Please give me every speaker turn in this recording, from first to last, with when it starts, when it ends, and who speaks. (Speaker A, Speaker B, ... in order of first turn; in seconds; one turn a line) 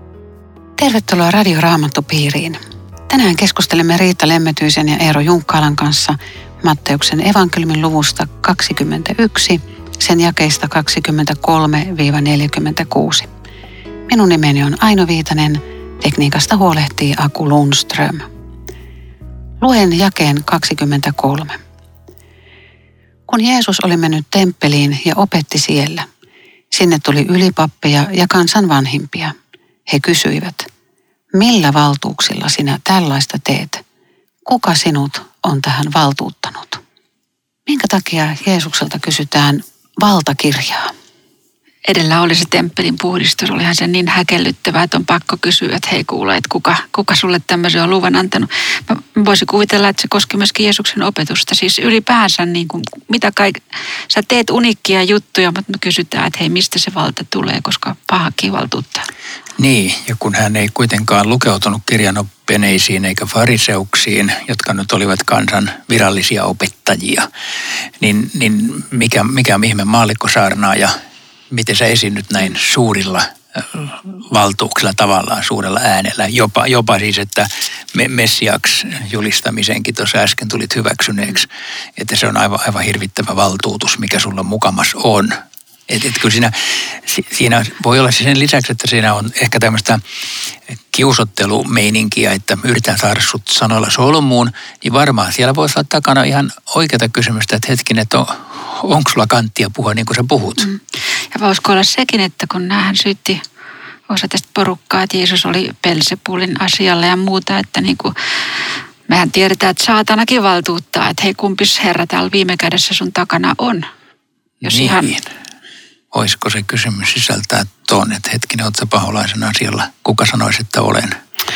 Speaker A: 0.8-13.3
Speaker A: 14.1-18.2
Speaker A: 19.6-21.6
Speaker A: 23.3-26.1
Speaker A: 26.7-29.3
Speaker A: 29.9-30.7
Speaker A: 31.3-33.8
Speaker A: 34.5-36.8
Speaker A: 37.7-40.9
Speaker B: 41.9-59.1
Speaker C: 59.6-67.2
Speaker C: 68.0-70.9
Speaker C: 71.5-90.0
Speaker C: 90.9-100.7
Speaker B: 101.3-103.4
Speaker B: 104.1-108.1
Speaker B: 109.1-113.9
Speaker C: 114.6-115.3
Speaker B: 114.6-115.1
Speaker C: 116.1-121.2